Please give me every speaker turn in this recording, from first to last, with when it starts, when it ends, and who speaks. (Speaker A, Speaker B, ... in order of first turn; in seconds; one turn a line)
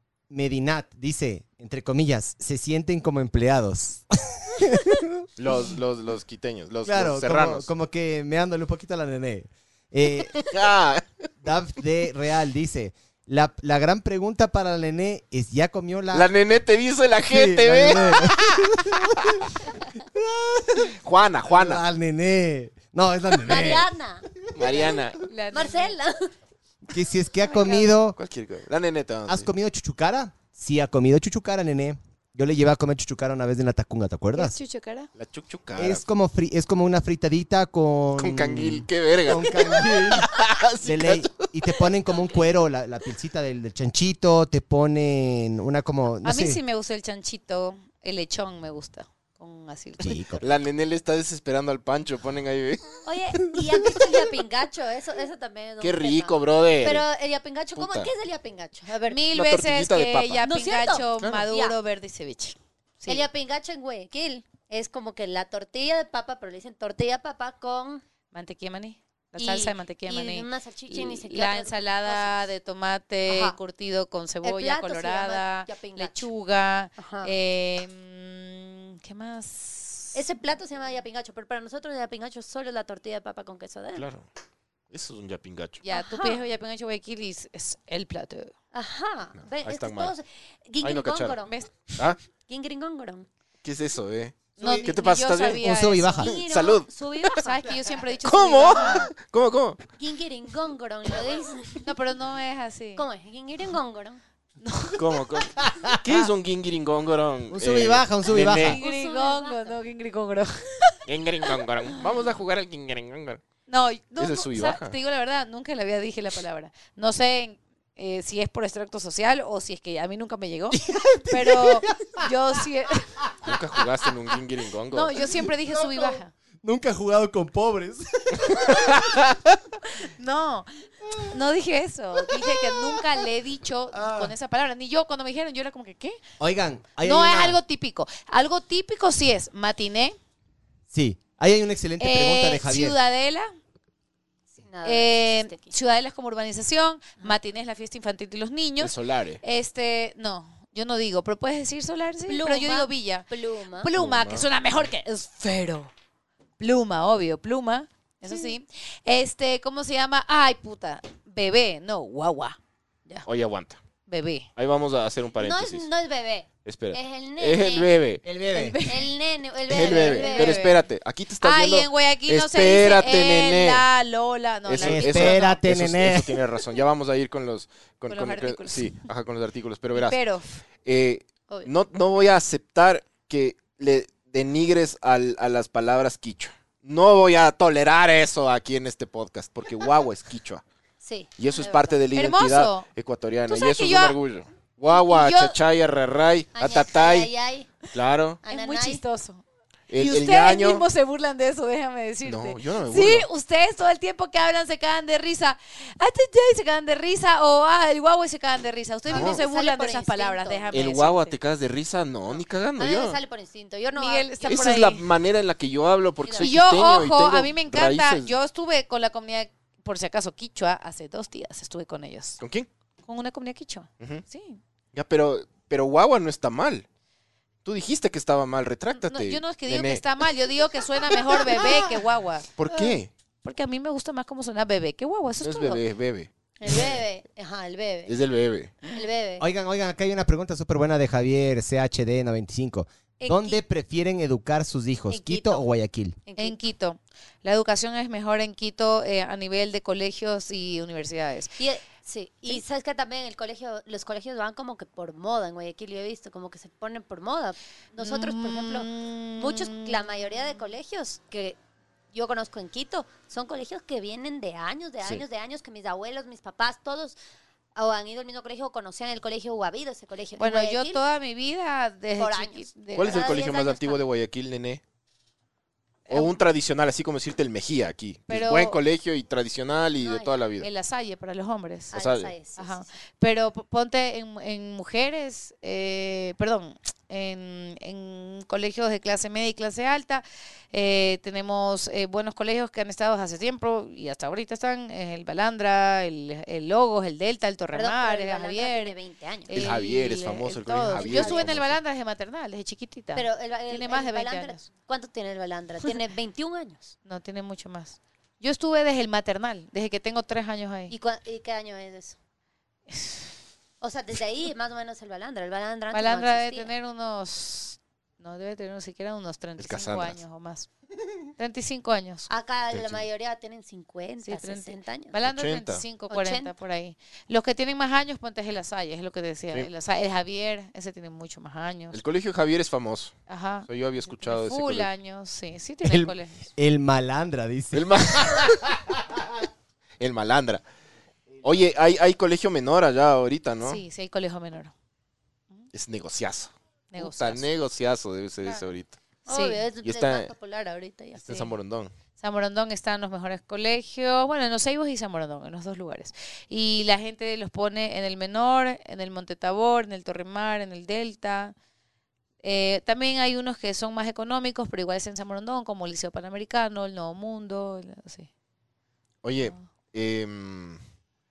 Speaker A: 0.3-5.8
Speaker B: 5.4-7.7
Speaker A: 6.8-10.5
Speaker B: 10.4-11.1
Speaker A: 11.4-16.3
Speaker B: 16.1-19.6
Speaker A: 17.2-20.9
Speaker B: 20.8-21.8
Speaker A: 21.5-23.9
Speaker C: 23.4-24.9
Speaker B: 24.5-25.2
Speaker A: 24.6-24.9
Speaker D: 25.2-26.0
Speaker C: 25.5-26.3
Speaker A: 26.9-28.2
Speaker D: 27.4-27.9
Speaker B: 28.2-29.5
Speaker A: 29.3-34.6
Speaker D: 34.3-35.1
Speaker B: 35.2-36.0
Speaker A: 35.8-46.6
Speaker B: 38.2-41.9
Speaker D: 46.2-50.4
Speaker A: 50.0-50.4
Speaker B: 50.4-53.0
Speaker C: 53.0-59.2
Speaker B: 55.8-57.1
Speaker B: 57.8-58.1
Speaker D: 59.0-63.3
Speaker B: 59.3-60.5
Speaker C: 60.4-61.8
Speaker C: 63.1-68.0
Speaker D: 68.3-80.2
Speaker C: 69.4-72.5
Speaker C: 73.3-73.6
Speaker C: 74.4-76.3
Speaker C: 77.0-77.3
Speaker C: 80.1-84.1
Speaker B: 84.0-84.3
Speaker B: 84.9-85.8
Speaker D: 85.8-88.5
Speaker C: 85.9-86.4
Speaker C: 88.7-91.6
Speaker B: 89.5-90.1
Speaker B: 90.8-91.4
Speaker C: 92.5-93.3
Speaker B: 93.6-95.7
Speaker D: 94.6-96.3
Speaker A: 94.6-94.9
Speaker A: 95.6-96.3
Speaker C: 96.2-98.1
Speaker B: 96.2-97.3
Speaker D: 97.4-99.1
Speaker B: 98.2-99.8
Speaker C: 100.0-101.8
Speaker D: 101.8-103.0
Speaker C: 103.0-104.2
Speaker D: 104.6-105.0
Speaker B: 105.0-108.8
Speaker A: 105.6-106.3
Speaker A: 107.5-108.8
Speaker C: 108.6-109.8
Speaker D: 108.7-111.0
Speaker B: 111.1-113.4
Speaker D: 113.7-123.2
Speaker B: 114.2-115.0
Speaker A: 120.7-122.3
Speaker A: 123.2-124.1
Speaker B: 123.4-125.1
Speaker D: 124.9-126.3
Speaker A: 125.2-129.2
Speaker B: 128.7-129.4
Speaker D: 130.0-130.7
Speaker A: 131.1-131.3
Speaker D: 131.3-136.2
Speaker A: 132.3-133.1
Speaker A: 133.9-134.3
Speaker A: 136.4-137.6
Speaker D: 137.0-140.2
Speaker A: 140.9-143.0
Speaker D: 142.0-143.5
Speaker C: 144.5-145.7
Speaker D: 144.8-155.9
Speaker B: 148.8-149.4
Speaker C: 152.3-153.9
Speaker B: 154.0-154.5
Speaker D: 156.6-163.3
Speaker C: 158.3-158.5
Speaker B: 163.3-163.8
Speaker D: 164.1-164.5
Speaker B: 164.6-165.9
Speaker C: 165.4-167.9
Speaker B: 166.7-168.2
Speaker A: 168.2-168.8
Speaker D: 168.5-169.1
Speaker C: 168.9-170.7
Speaker B: 169.7-173.9
Speaker D: 169.7-170.8
Speaker D: 171.4-175.6
Speaker B: 174.7-180.2
Speaker A: 174.8-176.4
Speaker D: 178.1-179.1
Speaker D: 179.9-180.6
Speaker B: 180.8-190.6
Speaker C: 191.0-192.0
Speaker B: 191.4-197.3
Speaker D: 192.1-192.9
Speaker D: 193.5-194.2
Speaker D: 194.9-195.6
Speaker C: 196.6-197.7
Speaker B: 197.9-198.4
Speaker C: 198.4-199.0
Speaker D: 198.5-211.4
Speaker B: 199.9-200.8
Speaker B: 202.2-203.3
Speaker C: 209.1-210.9
Speaker B: 209.1-209.4
Speaker B: 210.7-213.2
Speaker C: 212.3-214.6
Speaker D: 213.9-215.1
Speaker B: 214.4-218.4
Speaker C: 216.2-216.6
Speaker D: 216.4-222.4
Speaker B: 222.4-222.7
Speaker D: 223.1-224.6
Speaker B: 224.9-226.9
Speaker B: 227.7-230.0
Speaker D: 228.9-232.5
Speaker B: 232.6-233.1
Speaker D: 233.4-235.8
Speaker B: 235.4-237.0
Speaker C: 236.6-238.2
Speaker B: 238.1-238.8
Speaker C: 238.9-239.5
Speaker A: 239.4-246.2
Speaker D: 243.2-243.6
Speaker C: 245.1-245.7
Speaker C: 246.3-246.6
Speaker D: 246.4-251.6
Speaker C: 251.6-261.6
Speaker D: 258.0-260.1
Speaker C: 262.1-267.2
Speaker C: 267.8-271.0
Speaker D: 270.4-273.4
Speaker C: 272.2-274.0
Speaker B: 272.9-274.8
Speaker D: 276.1-276.4
Speaker B: 276.1-280.7
Speaker D: 278.3-278.8
Speaker C: 280.0-280.4
Speaker D: 280.6-281.9
Speaker C: 281.9-282.9
Speaker B: 281.9-282.3
Speaker D: 282.6-298.9
Speaker C: 297.7-299.6
Speaker D: 299.5-304.6
Speaker B: 299.5-301.8
Speaker C: 301.0-301.5
Speaker C: 303.1-306.9
Speaker D: 307.1-310.9
Speaker C: 310.9-312.2
Speaker D: 312.9-313.2
Speaker C: 313.8-316.7
Speaker D: 315.9-320.7
Speaker B: 319.6-320.2
Speaker D: 321.4-322.3
Speaker C: 322.3-325.2
Speaker B: 322.7-323.0
Speaker D: 324.2-332.0
Speaker B: 325.2-325.8
Speaker C: 326.1-326.5
Speaker B: 331.9-334.9
Speaker D: 333.3-336.5
Speaker A: 335.8-338.5
Speaker B: 337.7-338.9
Speaker B: 340.0-340.6
Speaker B: 341.4-343.8
Speaker D: 343.6-344.7
Speaker B: 345.7-349.0
Speaker D: 346.9-347.5
Speaker C: 349.3-351.4
Speaker D: 349.3-349.6
Speaker B: 349.8-350.3
Speaker B: 351.2-351.9
Speaker D: 352.2-361.6
Speaker D: 362.4-368.3
Speaker B: 369.2-370.8